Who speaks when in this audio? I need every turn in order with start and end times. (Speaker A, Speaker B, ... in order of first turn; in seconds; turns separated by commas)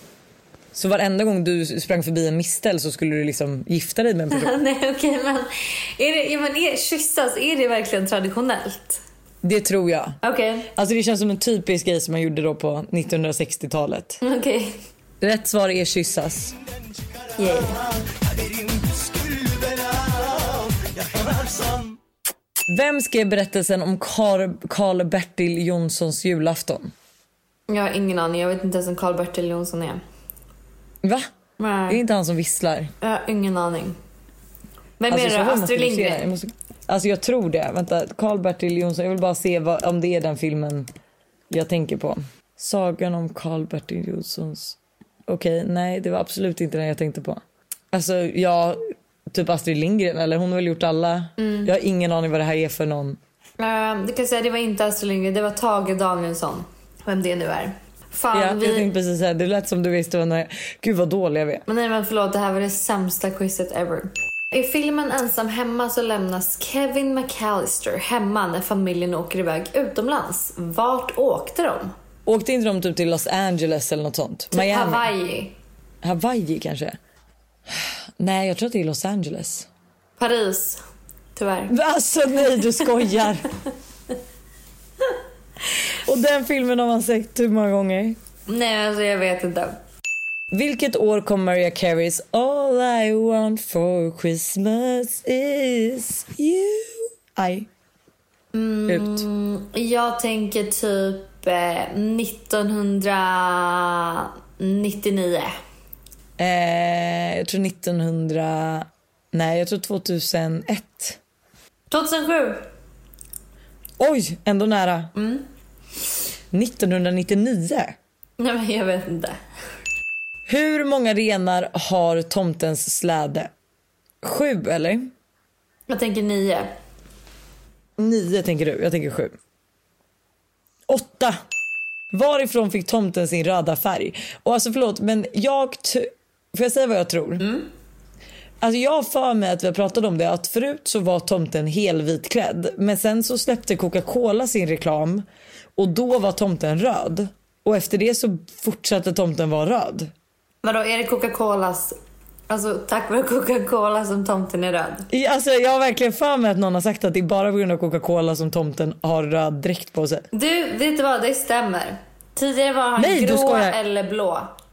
Speaker A: 0.7-4.5, Speaker B: 4.3-9.0, Speaker A: 9.4-10.2, Speaker B: 10.2-10.7, Speaker A: 10.7-14.2, Speaker B: 14.2-14.8, Speaker A: 15.2-16.6, Speaker B: 17.4-17.8, Speaker A: 22.7-26.9, Speaker B: 27.7-30.0, Speaker A: 31.0-31.3, Speaker B: 31.6-32.0, Speaker A: 31.9-32.9, Speaker B: 33.0-34.0, Speaker B: 35.0-36.2, Speaker A: 35.1-40.9, Speaker A: 41.5-53.2, Speaker B: 51.4-51.7, Speaker B: 53.6-58.9, Speaker A: 58.3-61.6, Speaker B: 61.7-71.9, Speaker A: 72.2-75.1, Speaker B: 74.5-75.5, Speaker A: 76.0-77.0, Speaker A: 77.7-79.7, Speaker B: 80.2-80.8, Speaker B: 81.3-81.7, Speaker A: 81.7-83.5, Speaker A: 85.9-88.2, Speaker B: 88.5-89.8, Speaker A: 90.5-97.7, Speaker B: 98.5-105.5, Speaker A: 98.9-99.2, Speaker A: 106.4-111.2, Speaker B: 111.9-112.7, Speaker A: 114.0-115.1, Speaker B: 115.1-115.4, Speaker A: 116.5-117.9, Speaker B: 118.4-119.4, Speaker A: 120.5-123.5, Speaker A: 124.2-125.1, Speaker B: 125.9-126.7, Speaker A: 128.0-129.3, Speaker A: 130.9-131.4, Speaker A: 132.1-137.6, Speaker A: 138.6-145.2, Speaker A: 145.8-150.1, Speaker B: 150.6-151.9, Speaker B: 152.5-155.1, Speaker A: 155.1-160.3, Speaker B: 160.3-164.5, Speaker A: 163.0-163.8